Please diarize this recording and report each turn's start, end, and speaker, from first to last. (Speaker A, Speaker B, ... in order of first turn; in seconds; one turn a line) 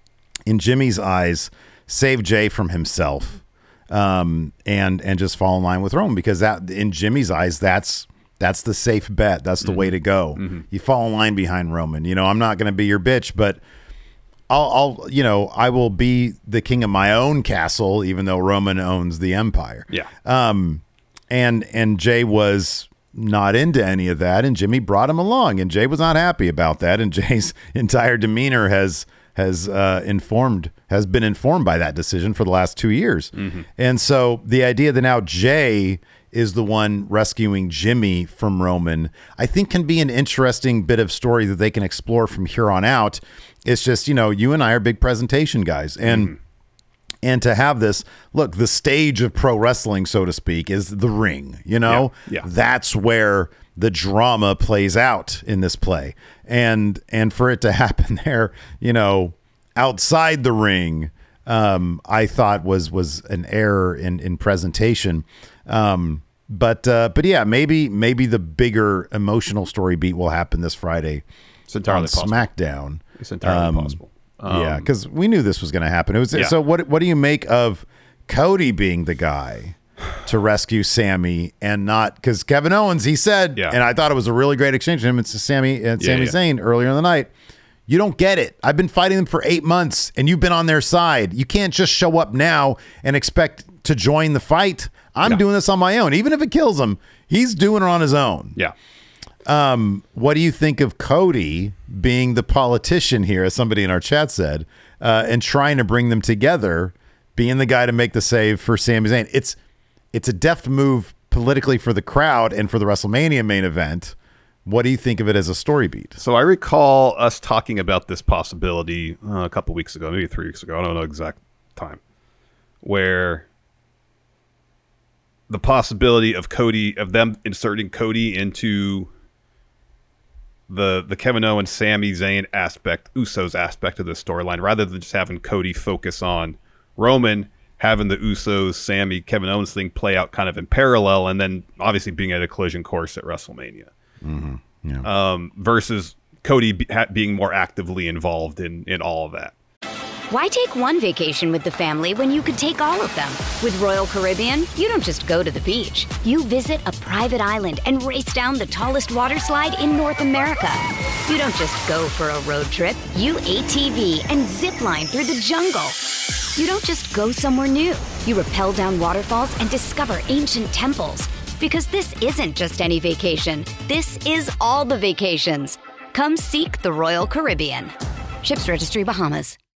Speaker A: 0.5-13.6
Speaker B: 9.6-10.7
Speaker A: 14.5-46.3
Speaker B: 33.3-33.7
Speaker B: 46.1-46.4
Speaker A: 47.2-71.2
Speaker B: 51.9-52.5
Speaker B: 71.7-72.5
Speaker A: 71.9-87.3
Speaker B: 73.2-74.9
Speaker B: 86.0-86.3
Speaker A: 87.9-98.6
Speaker A: 99.5-109.6
Speaker A: 110.1-116.2
Speaker B: 116.2-122.0
Speaker B: 122.8-123.5
Speaker B: 125.5-129.1
Speaker B: 130.7-143.9
Speaker A: 144.2-145.1
Speaker B: 145.0-149.5
Speaker C: 150.3-166.1
Speaker C: 166.6-179.6